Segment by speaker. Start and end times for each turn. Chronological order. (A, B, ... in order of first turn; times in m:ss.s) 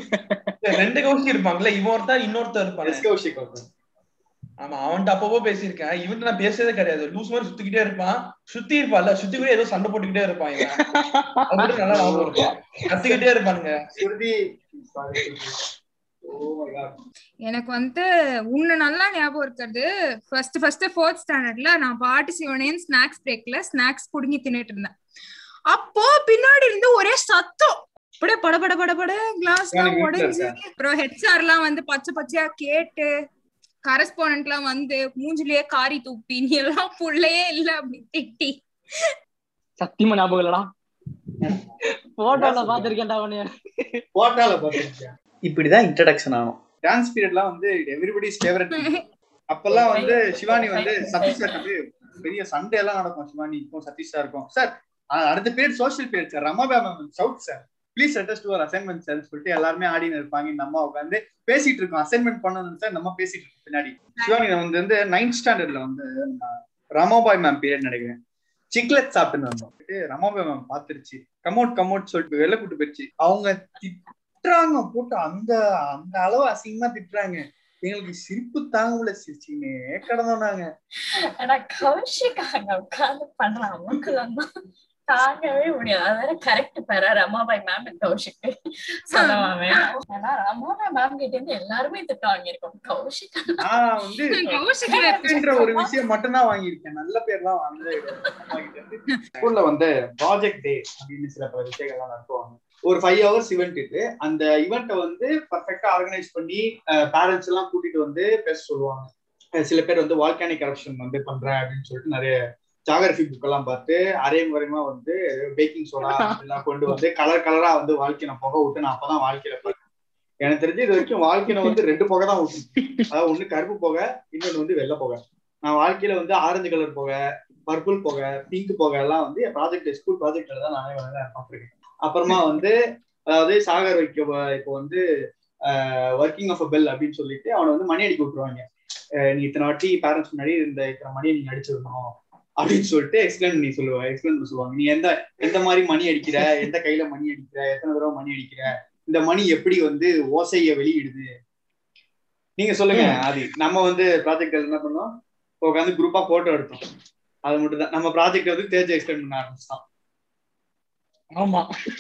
0:00.1-0:00.5 A
0:00.8-0:03.1 B
0:02.8-0:03.7 C
0:04.6-0:10.9 B
0:10.8-0:12.5 A
0:11.5-0:13.9 B
0:12.9-0:13.2 C
0:14.0-0:15.6 C
0:16.3-0:17.0 C
0:17.4-0:24.9 D
0:25.7-0:33.1 D
0:29.7-0:30.6 C
0:33.9-0:38.5 D
0:39.8-0:40.6 A
0:41.4-0:41.7 C
0:42.2-0:43.9 A
0:42.3-0:43.0 C
0:44.2-0:48.9 C
0:48.7-0:49.0 D
0:49.5-1:08.2 C
0:49.7-0:51.5 E
1:08.7-1:20.7 C
1:21.4-1:24.4 E
1:25.1-1:28.5 E
1:29.1-1:33.6 E
1:29.1-1:29.8 D
1:33.6-1:34.4 C
1:34.3-1:35.7 D
1:34.4-1:35.8 E
1:35.1-1:49.1 C
1:49.6-1:52.3 C
1:52.9-1:59.8 C
1:56.1-1:56.4 A
2:00.4-2:07.2 C
2:07.7-2:12.8 C
2:13.3-2:15.0 C
2:15.7-2:18.6 C
2:19.3-2:31.3 C
2:32.6-2:35.1 C
2:35.6-2:36.8 C
2:37.5-2:39.8 C
2:41.4-2:41.7 B